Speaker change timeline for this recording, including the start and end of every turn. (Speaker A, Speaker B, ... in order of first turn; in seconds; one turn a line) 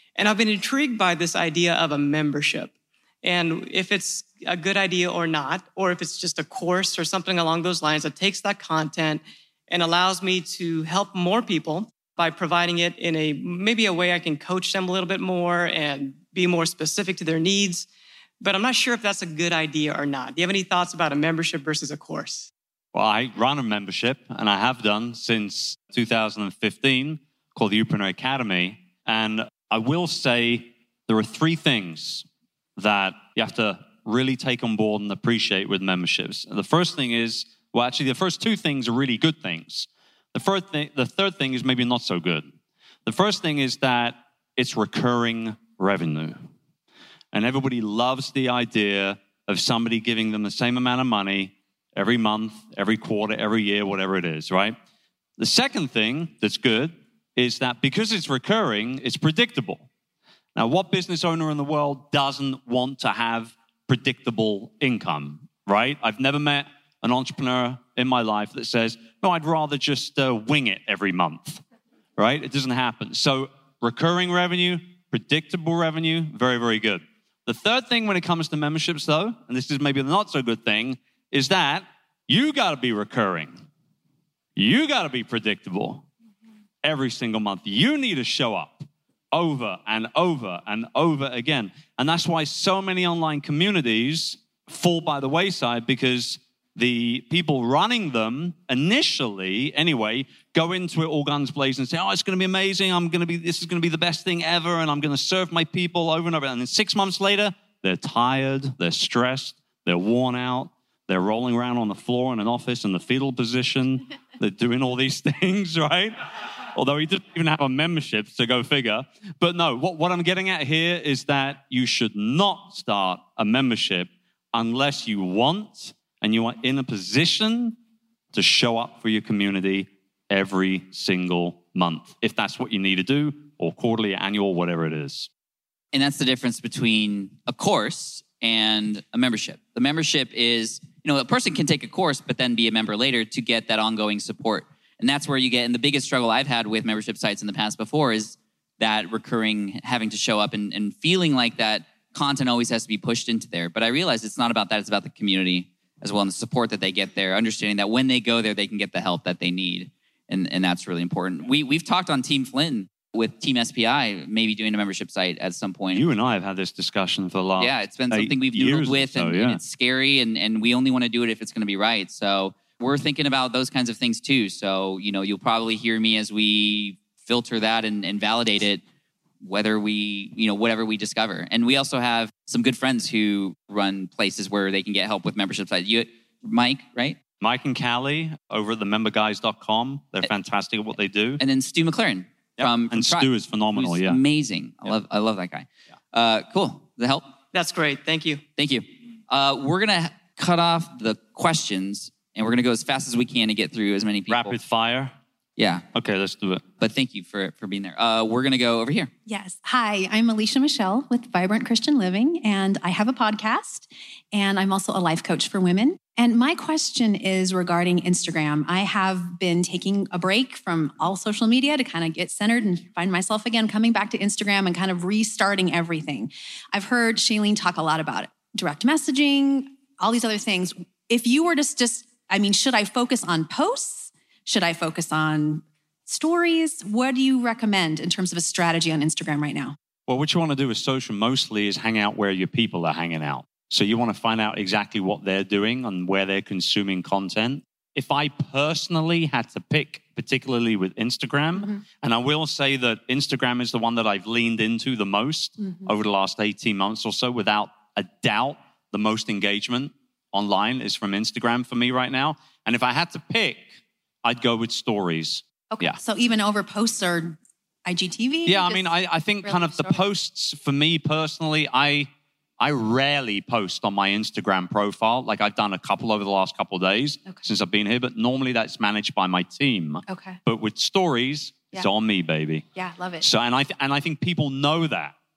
Speaker A: 0.2-17.9
Speaker A: 18.4-22.5
Speaker B: 22.9-32.2
Speaker B: 32.8-42.5
Speaker B: 43.0-46.4
Speaker B: 47.3-54.8
Speaker B: 55.4-59.9
Speaker B: 60.5-71.6
Speaker B: 72.2-83.6
Speaker B: 84.6-86.0
Speaker B: 86.8-116.2
Speaker B: 116.8-127.8
Speaker B: 128.3-135.3
Speaker C: 135.9-166.1
Speaker B: 165.9-169.6
Speaker C: 167.6-178.8
Speaker C: 179.4-187.2
Speaker B: 187.4-191.4
Speaker C: 191.4-197.3
Speaker B: 192.6-194.2
Speaker A: 197.5-198.4
Speaker C: 198.6-204.6
Speaker B: 204.3-205.1
Speaker C: 205.6-205.8
Speaker B: 205.9-206.6
Speaker C: 206.8-209.1
Speaker D: 209.3-239.8
Speaker B: 240.1-266.0
Speaker D: 255.6-255.9
Speaker D: 265.7-270.0
Speaker B: 268.4-272.1
Speaker B: 272.6-282.7
Speaker D: 280.1-280.4
Speaker D: 282.8-283.3
Speaker B: 283.2-285.1